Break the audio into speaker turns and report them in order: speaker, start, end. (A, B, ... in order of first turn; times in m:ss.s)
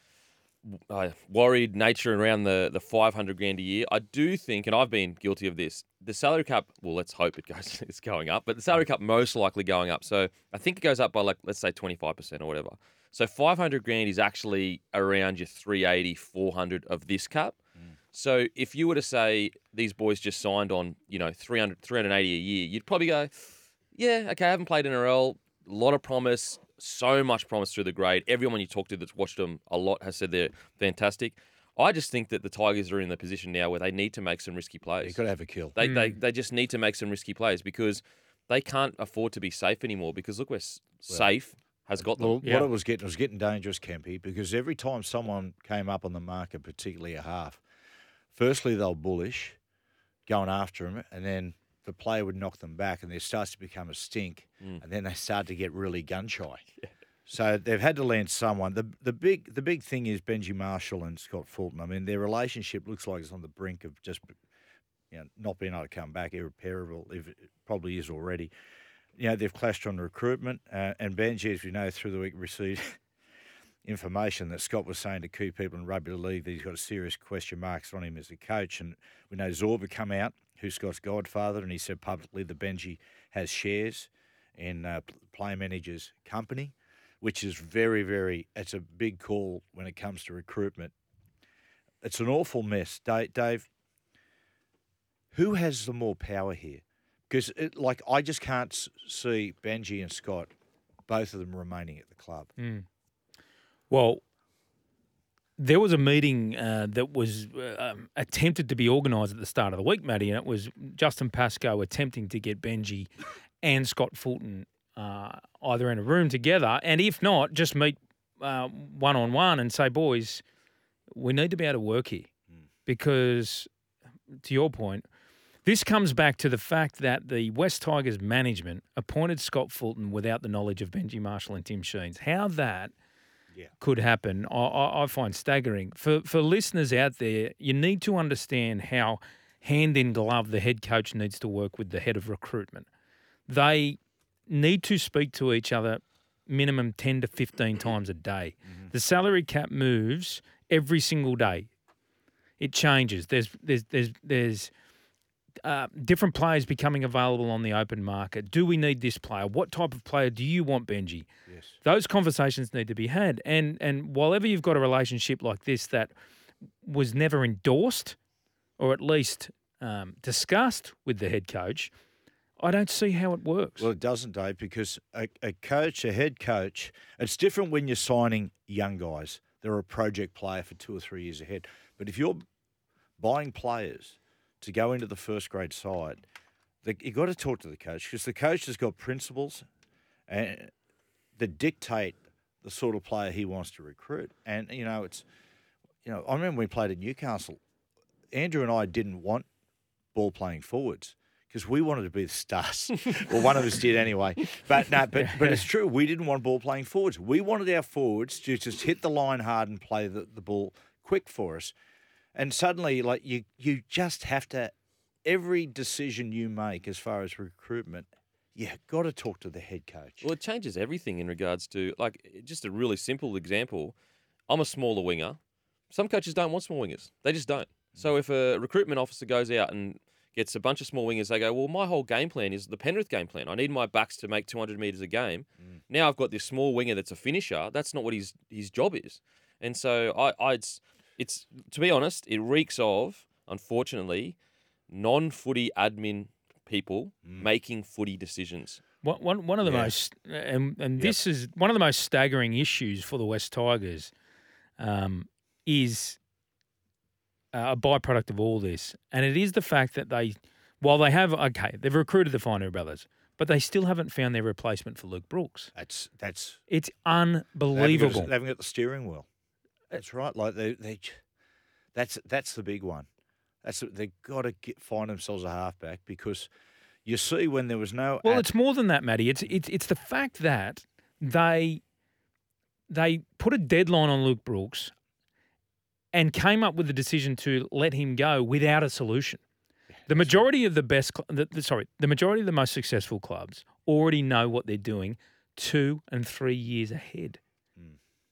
0:00.6-0:17.6 A
0:18.1-0:35.2 A
0:35.0-0:35.8 B
0:35.8-0:42.4 A
0:35.8-0:36.2 C
0:42.0-0:47.6 B
0:42.4-0:42.7 C
0:48.3-0:49.6 B
0:50.3-0:56.6 B
0:57.2-1:04.4 B
1:05.1-1:08.5 B
1:09.2-1:13.0 B
1:13.8-1:30.9 B
1:32.0-1:33.7 B
1:35.3-1:40.5 B
1:41.1-1:42.5 B
1:42.6-1:42.8 C
1:43.9-1:44.2 C
1:45.6-1:53.1 C
1:53.6-2:00.4 C
2:01.1-2:02.3 C
2:02.8-2:03.7 C
2:04.3-2:05.0 C
2:05.6-2:12.9 C
2:13.8-2:22.8 C
2:23.5-2:31.7 C
2:32.6-2:34.7 C
2:35.6-2:41.3 C
2:41.5-2:41.8 B
2:41.8-2:46.1 C
2:46.8-2:48.2 C
2:48.8-2:51.9 C
2:52.6-2:53.9 C
2:53.8-3:02.4 B
3:03.2-3:06.2 B
3:06.8-3:09.6 B
3:10.3-3:10.7 B
3:11.4-3:15.2 B
3:16.0-3:17.6 B
3:18.3-3:19.5 B
3:20.1-3:31.7 B
3:25.1-3:25.6 C
3:32.3-3:34.7 B
3:35.2-3:40.3 B
3:40.2-3:43.9 A
3:44.5-3:45.4 A
3:45.9-4:04.4 A
4:04.9-4:08.8 A
4:09.0-4:14.1 C
4:09.6-4:09.9 B
4:14.8-4:16.2 C
4:17.5-4:25.7 C
4:25.7-4:26.6 B
4:26.7-4:28.3 C
4:27.7-4:29.3 B
4:29.9-4:31.2 B
4:31.9-4:33.1 B
4:33.6-4:36.5 B
4:37.0-4:38.4 B
4:38.2-4:41.8 C
4:42.9-4:44.9 C
4:46.1-4:49.4 C
4:49.9-4:50.4 B
4:50.1-4:57.4 C